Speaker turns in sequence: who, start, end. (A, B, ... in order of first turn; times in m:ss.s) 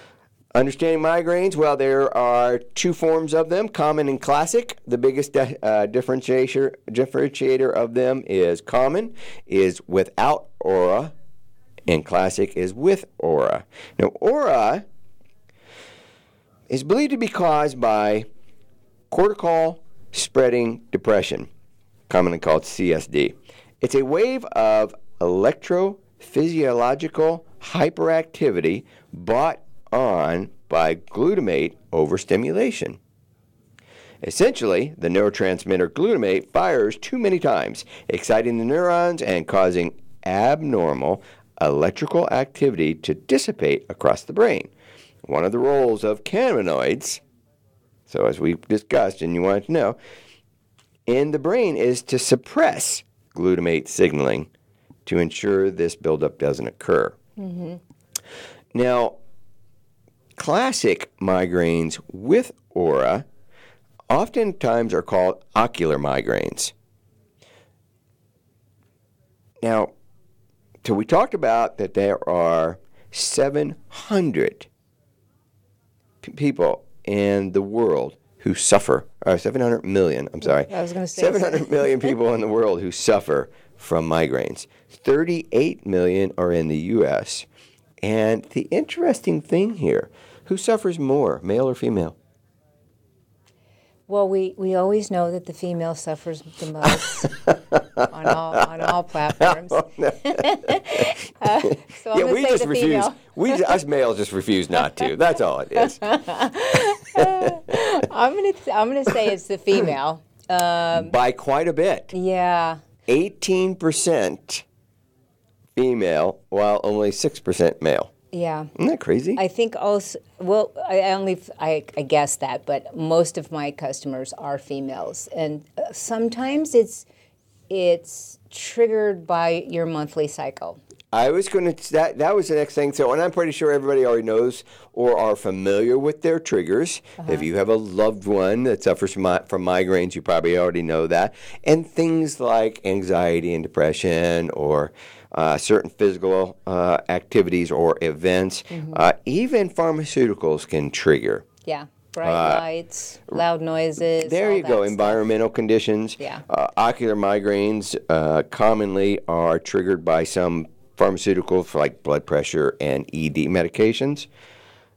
0:00.5-0:11.1 A
0:11.9-0:14.8 A
0:16.7-0:18.3 A
0:19.1-0:21.5 A
0:22.1-0:33.0 A
0:34.2-0:44.7 A
0:45.2-0:47.2 A
0:48.1-0:50.0 A
0:51.1-0:54.5 A
0:55.0-0:57.2 A
0:57.4-0:57.8 B
0:58.7-0:59.2 A
1:00.4-1:03.3 A
1:04.1-1:06.7 A
1:09.6-1:09.9 A
1:10.8-1:14.7 A
1:16.2-1:27.5 A
1:20.4-1:22.1 B
1:28.0-1:32.2 A
1:34.1-1:37.3 B
1:37.5-1:41.1 A
1:38.1-1:43.7 B
1:41.6-1:46.1 A
1:45.8-1:51.2 B
1:47.1-1:47.8 A
1:50.9-1:52.1 A
1:52.1-1:52.8 B
1:53.1-1:54.6 A
1:55.8-1:58.1 A
1:58.3-1:58.7 B
1:58.8-1:59.4 A
1:59.4-2:07.1 B
2:07.7-2:10.8 B
2:11.1-2:31.5 A
2:17.2-2:17.5 B
2:28.7-2:29.0 B
2:31.6-2:35.2 B
2:32.2-2:32.7 A
2:34.1-2:44.3 A